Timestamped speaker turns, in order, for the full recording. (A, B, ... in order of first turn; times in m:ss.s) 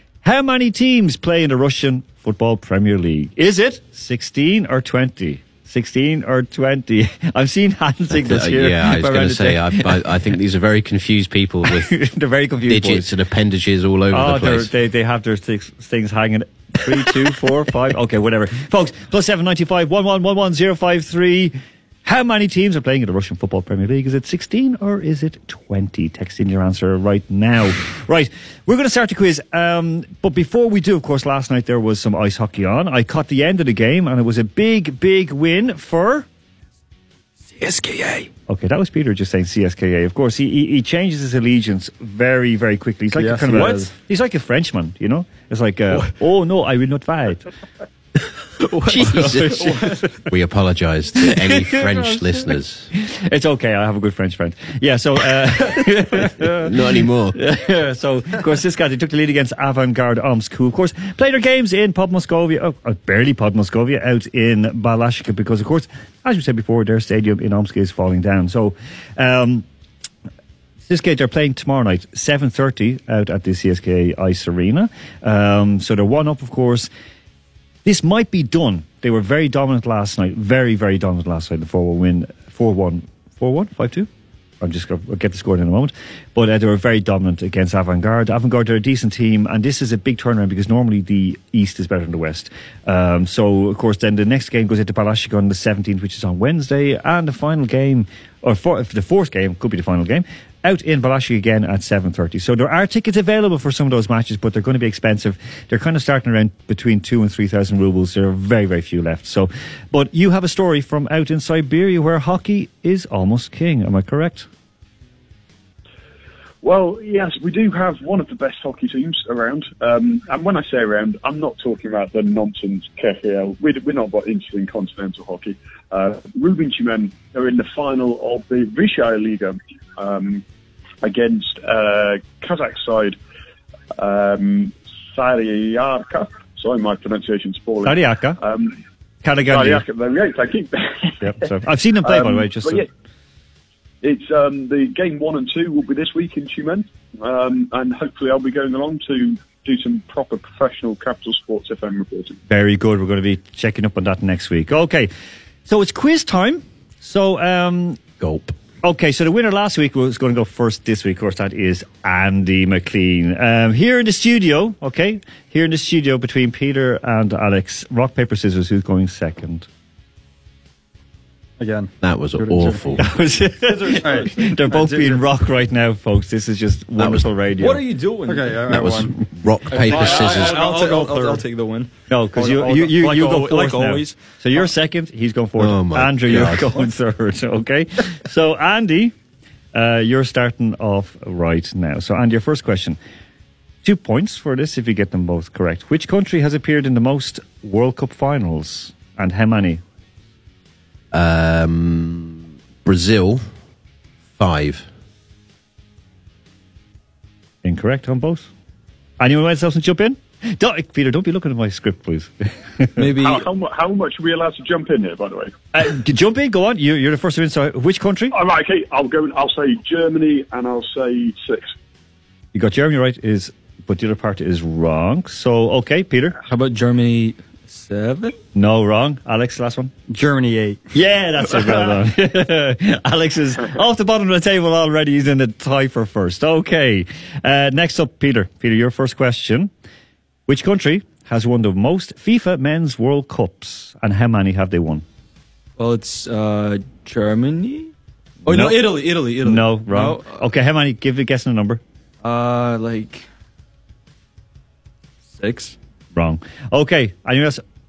0:00.2-0:10.1 A
0:08.2-0:12.0 B
0:11.7-0:13.1 A
0:12.7-0:14.7 B
0:14.1-0:36.3 A
0:37.6-0:38.3 C
0:38.5-0:47.4 A
0:43.2-0:43.9 D
0:43.5-0:43.9 C
0:48.6-0:50.2 C
0:48.9-0:52.9 B
0:51.7-1:09.6 A
0:56.6-0:57.4 B
1:10.9-1:16.9 A
1:17.8-1:24.1 A
1:24.6-1:54.5 A
1:56.6-2:10.4 E
2:11.0-2:13.2 E
2:14.0-2:18.8 E
2:17.8-2:18.4 A
2:19.2-2:19.8 A
2:19.5-2:21.3 E
2:21.2-2:22.8 A
2:22.0-2:22.9 E
2:24.0-2:32.4 E
2:32.5-2:35.1 A
2:35.7-2:38.1 A
2:38.2-2:38.5 B
2:38.8-2:49.7 A
2:51.6-2:52.8 D
2:52.0-2:53.0 B
2:53.0-2:57.8 A
2:53.8-2:55.2 D
2:53.8-2:54.4 C
2:57.0-2:57.3 B
2:57.6-2:58.7 C
2:58.2-3:01.4 D
2:58.7-3:00.6 B
2:59.7-3:04.2 C
3:02.1-3:09.1 A
3:05.6-3:06.7 B
3:09.7-3:13.0 A
3:13.8-3:19.8 A
3:21.1-3:23.4 B
3:24.4-3:24.9 B
3:27.6-3:28.5 A
3:29.2-3:33.0 A
3:33.0-3:33.4 C
3:33.2-3:35.5 E
3:35.7-3:38.4 A
3:38.3-3:41.7 E
3:42.5-3:46.4 A
3:46.5-3:48.4 C
3:48.6-3:49.9 A
3:50.1-3:50.8 D
3:50.9-3:59.7 A
4:00.5-4:05.0 A
4:05.8-4:07.9 C
4:08.5-4:10.5 C
4:08.5-4:11.8 A
4:12.2-4:13.3 C
4:15.4-4:15.8 C
4:16.2-4:17.6 A